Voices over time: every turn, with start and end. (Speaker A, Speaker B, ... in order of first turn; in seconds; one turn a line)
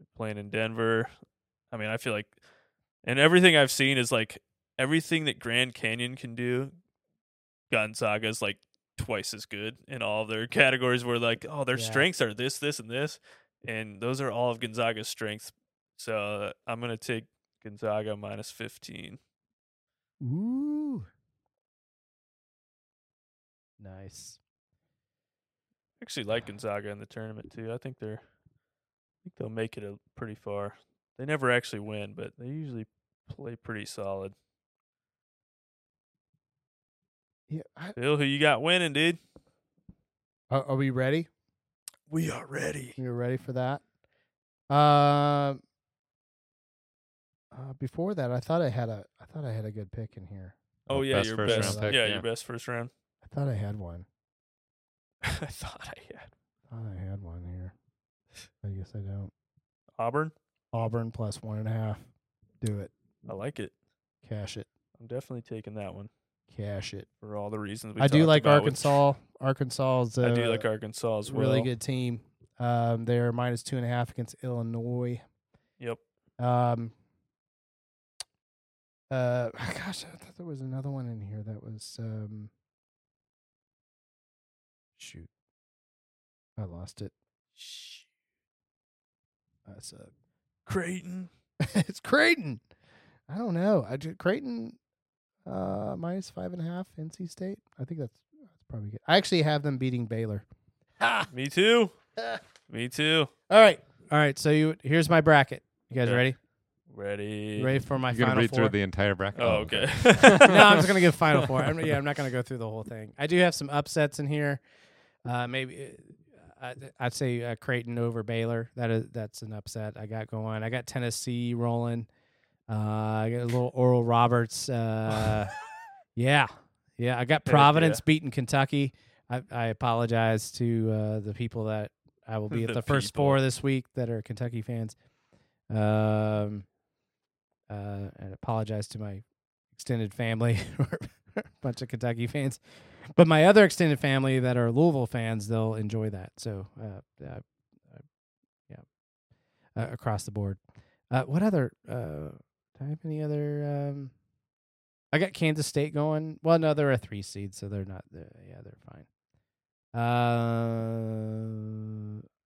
Speaker A: 0.1-1.1
Speaker A: 1.7-2.4
Speaker A: 3.0-6.7
Speaker A: 7.7-19.2
Speaker B: 11.7-12.1
Speaker B: 20.2-21.1
Speaker B: 23.8-24.4
Speaker A: 26.0-28.2
Speaker A: 29.2-34.3
Speaker B: 37.5-38.0
Speaker A: 38.0-39.2
Speaker B: 40.5-41.3
Speaker A: 42.1-43.0
Speaker B: 43.0-43.8
Speaker B: 44.7-45.6
Speaker B: 47.5-50.6
Speaker A: 50.9-52.9
Speaker C: 50.9-52.2
Speaker B: 51.4-52.0
Speaker B: 53.2-54.1
Speaker A: 55.2-56.3
Speaker B: 56.7-57.7
Speaker B: 58.6-59.3
Speaker A: 60.0-60.3
Speaker B: 60.7-62.0
Speaker B: 62.6-62.9
Speaker A: 63.3-63.7
Speaker B: 64.2-64.7
Speaker A: 65.0-66.1
Speaker B: 66.5-67.1
Speaker A: 67.2-69.0
Speaker B: 68.0-70.7
Speaker A: 70.2-71.7
Speaker B: 71.2-75.2
Speaker B: 76.4-76.9
Speaker B: 79.1-82.5
Speaker B: 85.0-85.3
Speaker B: 86.6-87.1
Speaker A: 87.6-88.0
Speaker B: 89.7-90.1
Speaker A: 90.7-91.3
Speaker B: 91.6-92.6
Speaker B: 93.3-94.8
Speaker B: 95.5-100.5
Speaker B: 101.0-101.3
Speaker A: 101.3-101.9
Speaker A: 102.7-103.3
Speaker B: 103.5-106.4
Speaker A: 106.9-107.8
Speaker B: 107.6-108.8
Speaker C: 108.1-110.9
Speaker A: 109.3-110.8
Speaker B: 110.3-114.6
Speaker B: 115.2-122.1
Speaker B: 122.7-125.5
Speaker B: 126.2-135.0
Speaker A: 127.5-128.0
Speaker A: 132.5-133.4
Speaker B: 135.7-136.7
Speaker B: 137.7-139.2
Speaker B: 139.8-142.6
Speaker B: 143.2-147.4
Speaker B: 149.8-150.6
Speaker B: 151.1-154.1
Speaker B: 155.1-159.1
Speaker B: 159.9-161.3